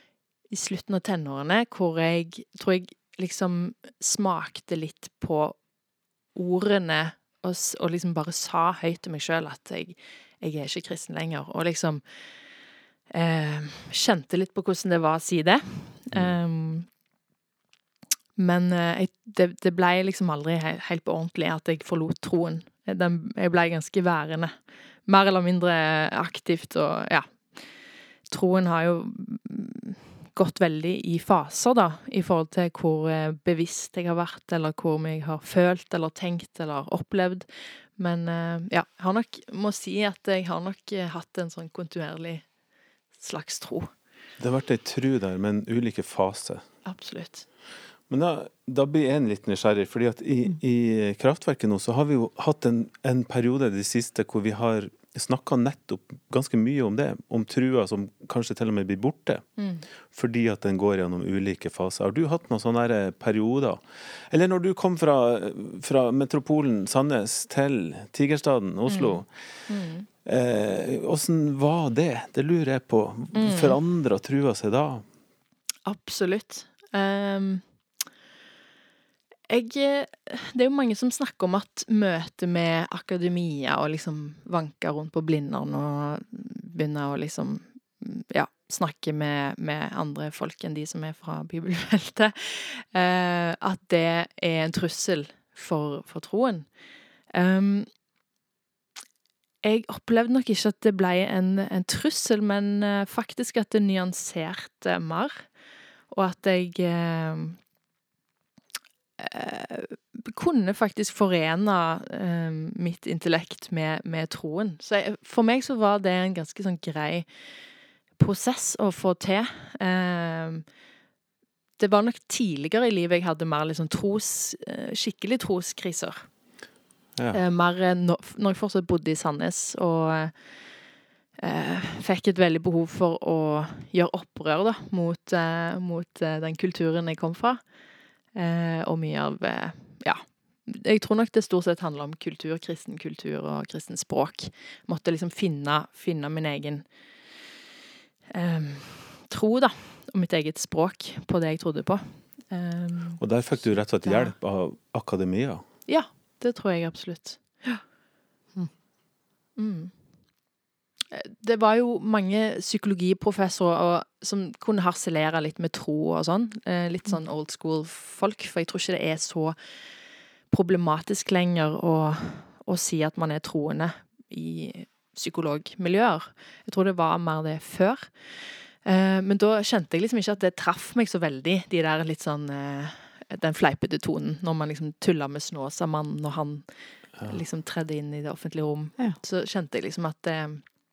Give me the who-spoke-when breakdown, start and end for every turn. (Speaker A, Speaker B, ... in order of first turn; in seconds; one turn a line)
Speaker A: 0.5-5.6
Speaker A: 6.3-12.6
Speaker A: 13.1-16.9
Speaker B: 16.1-16.4
Speaker A: 18.4-42.5
Speaker A: 43.1-43.9
Speaker B: 44.4-46.6
Speaker A: 46.8-47.5
Speaker B: 48.1-59.5
Speaker A: 59.6-59.9
Speaker B: 60.0-69.3
Speaker A: 68.9-70.1
Speaker B: 70.2-75.0
Speaker A: 73.3-73.8
Speaker A: 75.8-77.6
Speaker A: 79.5-96.7
Speaker A: 97.3-97.9
Speaker A: 99.6-105.5
Speaker A: 106.1-107.6
Speaker A: 109.2-117.3
Speaker A: 118.2-120.7
Speaker A: 121.8-126.3
Speaker A: 127.3-130.8
Speaker A: 131.4-137.7
Speaker A: 138.3-146.9
Speaker A: 148.3-154.3
Speaker B: 153.2-155.6
Speaker A: 155.9-157.8
Speaker A: 159.6-159.9
Speaker A: 161.1-169.6
Speaker A: 170.5-190.6